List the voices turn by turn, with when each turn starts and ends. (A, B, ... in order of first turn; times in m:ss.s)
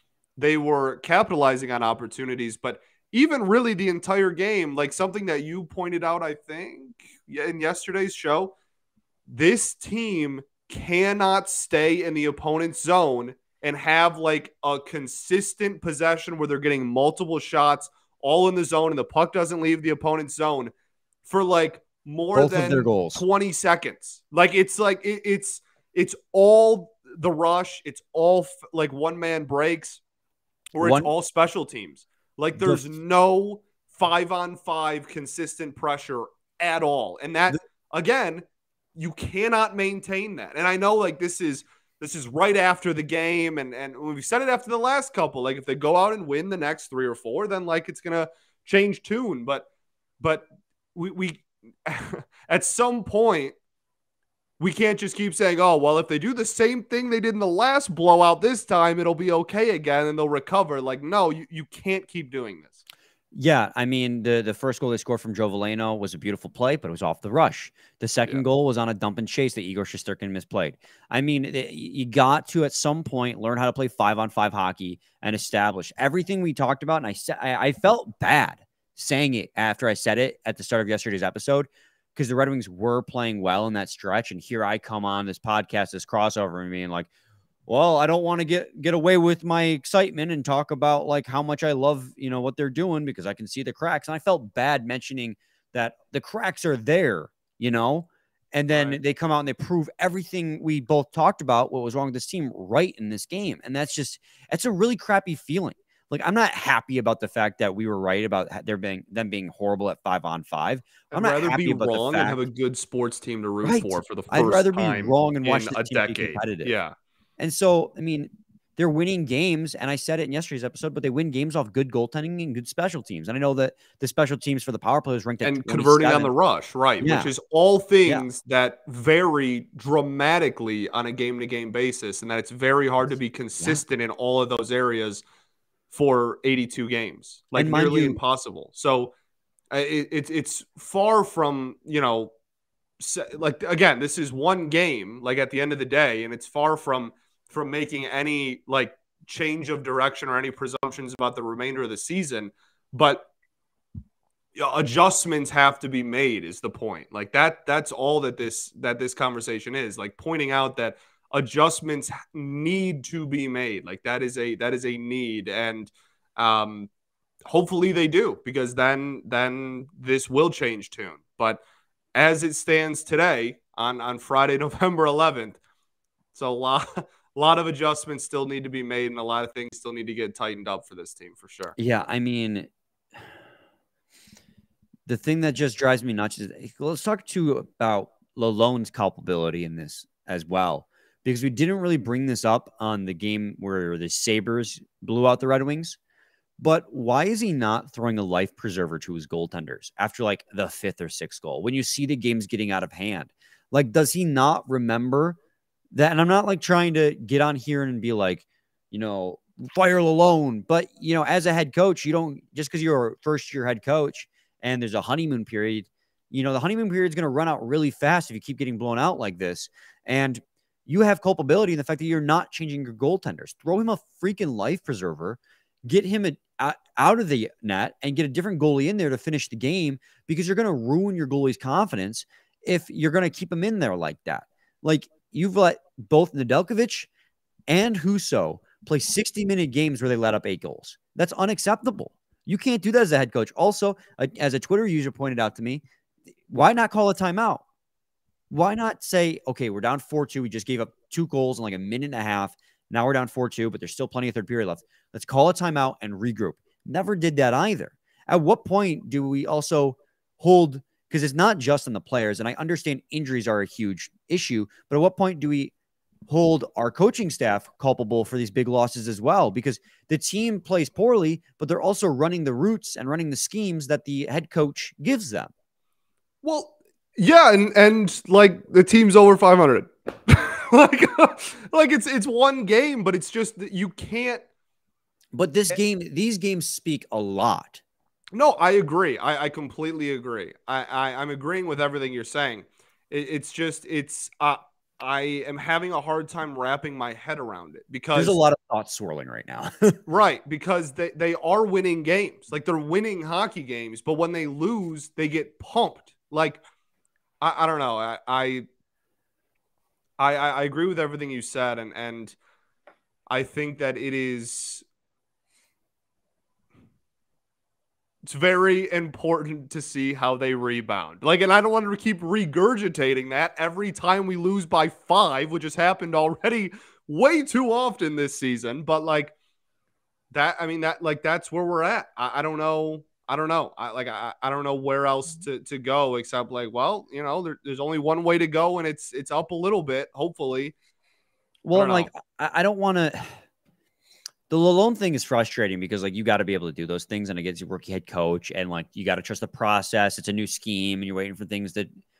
0:00.4-0:08.5 A
0:09.3-0:20.7 A
0:21.2-0:30.0 A
0:22.3-0:23.2 B
0:30.7-0:49.7 A
0:30.8-0:31.1 B
0:32.6-0:32.8 B
0:50.2-0:53.6 A
0:54.6-1:02.8 A
1:03.3-1:27.1 B
1:27.7-1:52.4 B
1:38.7-1:39.0 A
1:51.1-1:56.9 A
1:53.6-1:56.7 B
1:57.4-2:06.3 B
2:05.4-2:15.2 A
2:07.0-2:07.3 B
2:15.9-2:19.1 A
2:17.6-2:18.2 B
2:19.7-2:22.3 A
2:23.0-2:33.3 A
2:34.5-2:46.9 A
2:47.4-2:51.6 A
2:52.1-2:55.6 A
2:56.3-3:01.7 A
3:01.8-3:02.7 B
3:05.1-3:16.0 B
3:16.6-3:25.4 B
3:25.9-3:57.1 B
3:57.7-4:05.8 B
4:06.5-4:07.6 B
4:08.5-4:25.7 B
4:26.3-4:35.5 B
4:36.4-4:44.4 A
4:45.3-4:47.8 B
4:48.3-4:58.4 A
4:58.1-5:00.0 B
5:00.1-5:06.6 A
5:07.4-5:08.6 A
5:10.2-5:12.4 A
5:13.3-5:14.8 A
5:18.2-5:29.3 A
5:30.3-5:40.8 A
5:41.6-5:43.4 B
5:41.7-5:42.1 A
5:44.5-5:51.9 B